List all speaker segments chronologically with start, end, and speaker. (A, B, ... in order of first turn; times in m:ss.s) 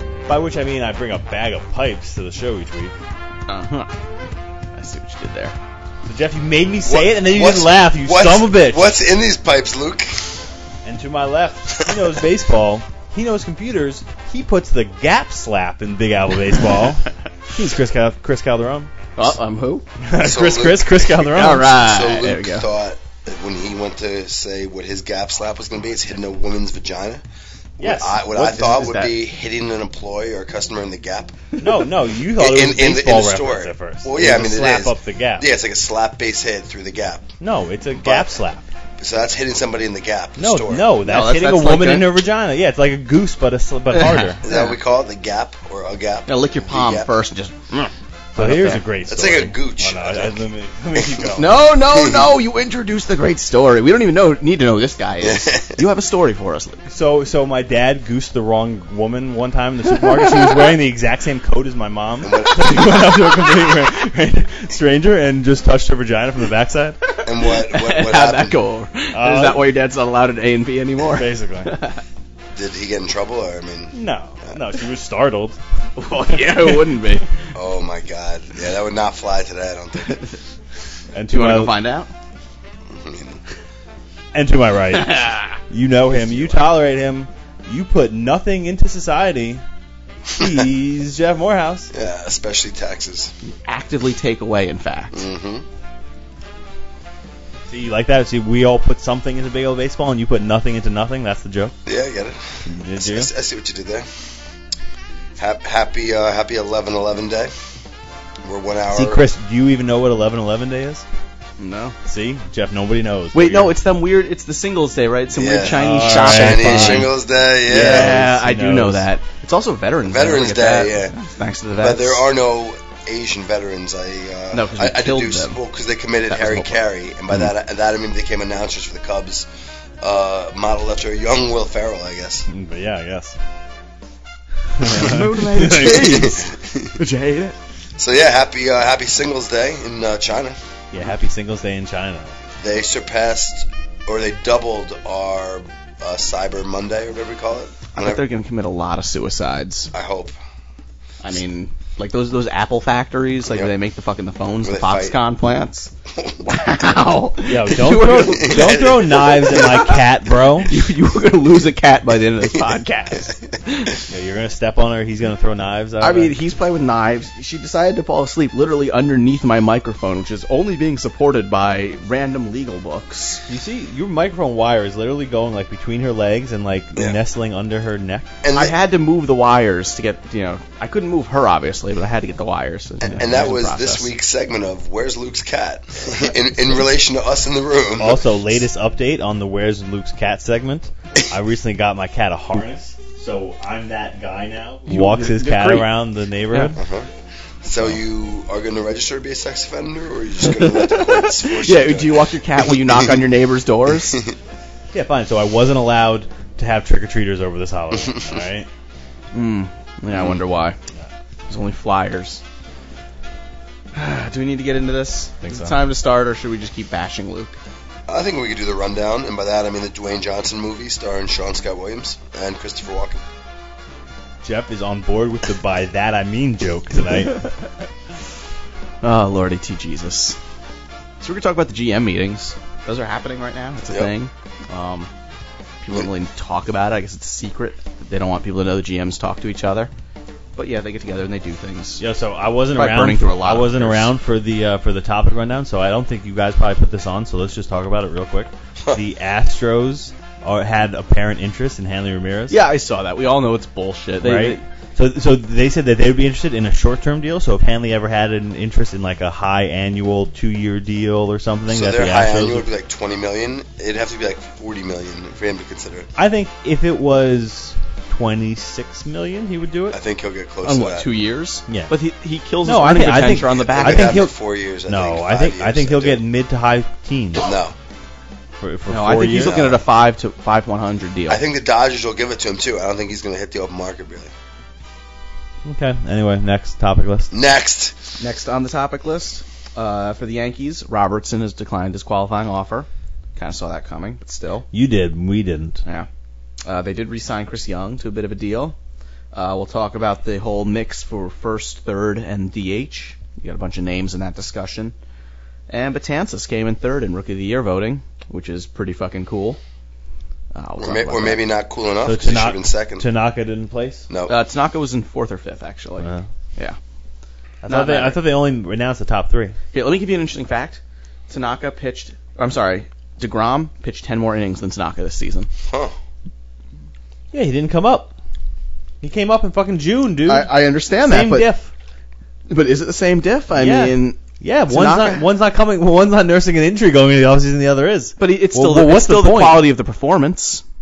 0:00.2-0:02.9 A
0:03.5-0:03.9 B
0:04.7-0:05.6 B
0:06.0-0:08.9 A
0:06.8-0:10.3 C
0:10.8-0:18.9 A
0:19.2-0:19.8 B
0:20.0-0:21.7 A
0:20.2-0:27.2 C
0:21.3-0:22.6 B
0:27.8-0:31.4 C
0:27.8-0:29.1 A
0:31.6-0:35.5 A
0:32.3-0:37.4 C
0:37.4-0:38.7 A
0:38.0-0:38.3 C
0:39.0-0:40.8 C
0:40.4-0:44.4 A
0:41.0-0:42.1 B
0:44.1-0:44.7 B
0:44.4-0:47.1 C
0:46.3-0:48.8 B
0:48.3-0:51.6 A
0:49.1-0:50.4 C
0:50.9-0:51.3 C
0:51.4-0:56.8 B
0:55.2-0:55.8 C
0:56.9-1:07.0 A
1:02.2-1:02.8 C
1:07.2-1:08.6 C
1:07.5-1:12.0 B
1:09.1-1:09.6 A
1:11.1-1:11.7 A
1:12.5-1:13.9 C
1:13.9-1:15.6 A
1:16.0-1:17.2 B
1:17.5-1:20.3 C
1:21.1-1:21.7 A
1:21.3-1:22.1 B
1:22.9-1:23.4 C
1:24.3-1:29.6 A
1:25.0-1:25.5 B
1:30.3-1:31.9 A
1:31.9-1:33.3 C
1:33.6-1:35.2 B
1:35.1-1:35.6 C
1:37.7-1:41.7 A
1:41.8-1:44.1 C
1:42.6-1:43.3 A
1:45.4-1:47.5 C
1:48.4-1:49.2 C
1:48.9-1:51.0 A
1:51.6-1:52.0 B
1:52.0-1:53.7 A
1:53.3-1:57.1 B
1:55.4-1:58.2 C
1:55.7-1:57.1 A
1:57.7-1:59.0 A
1:57.7-2:02.2 B
2:00.1-2:01.1 C
2:01.8-2:09.5 C
2:04.5-2:05.6 B
2:06.3-2:06.8 B
2:10.0-2:12.5 C
2:12.5-2:13.4 A
2:14.8-2:16.3 A
2:14.8-2:17.6 B
2:15.7-2:16.9 C
2:18.0-2:20.6 C
2:20.9-2:22.4 A
2:22.6-2:28.2 C
2:27.9-2:29.9 B
2:29.9-2:30.3 C
2:31.2-2:35.9 B
2:34.6-2:35.2 C
2:36.1-2:36.5 C
2:36.4-2:38.9 B
2:37.4-2:40.7 A
2:38.0-2:39.9 C
2:39.5-2:39.9 B
2:40.6-2:44.0 B
2:44.1-2:46.4 A
2:46.0-2:53.4 B
2:53.5-2:58.3 A
2:58.4-2:58.8 C
2:58.5-3:04.1 B
3:03.0-3:08.2 C
3:08.0-3:16.8 A
3:14.9-3:15.9 B
3:16.8-3:17.1 C
3:17.6-3:22.3 C
3:20.5-3:24.2 B
3:24.9-3:28.7 A
3:29.3-3:30.8 B
3:31.5-3:32.4 B
3:33.9-3:37.5 B
3:35.4-3:35.7 A
3:38.1-3:43.2 C
3:44.4-3:47.4 A
3:49.0-3:50.4 B
3:51.2-3:55.1 B
3:55.8-3:59.9 B
4:00.6-4:02.0 B
4:02.0-4:12.6 A
4:02.7-4:04.1 B
4:12.5-4:14.6 B
4:14.2-4:22.6 A
4:21.7-4:26.1 C
4:26.2-4:30.0 A
4:29.9-4:31.1 C
4:30.6-4:34.2 B
4:31.7-4:31.9 A
4:32.6-4:34.3 A
4:33.7-4:36.2 C
4:34.9-4:37.5 A
4:37.4-4:37.7 C
4:38.6-4:39.6 A
4:38.9-4:41.4 B
4:39.4-4:39.8 C
4:41.3-4:44.3 C
4:45.6-4:47.3 A
4:47.3-4:48.0 C
4:48.2-4:54.6 B
4:54.7-4:55.8 A
4:56.6-4:58.7 B
4:59.3-5:04.9 B
5:05.7-5:09.6 B
5:10.5-5:11.4 B
5:10.8-5:13.0 C
5:12.0-5:14.1 A
5:14.1-5:14.3 C
5:14.3-5:16.8 B
5:17.6-5:19.6 A
5:17.7-5:18.2 B
5:19.7-5:25.5 B
5:25.7-5:25.9 C
5:27.3-5:28.1 A
5:29.0-5:30.5 A
5:30.2-5:31.5 B
5:31.0-5:31.7 A
5:32.5-5:35.2 B
5:33.5-5:39.6 A
5:38.2-5:40.6 B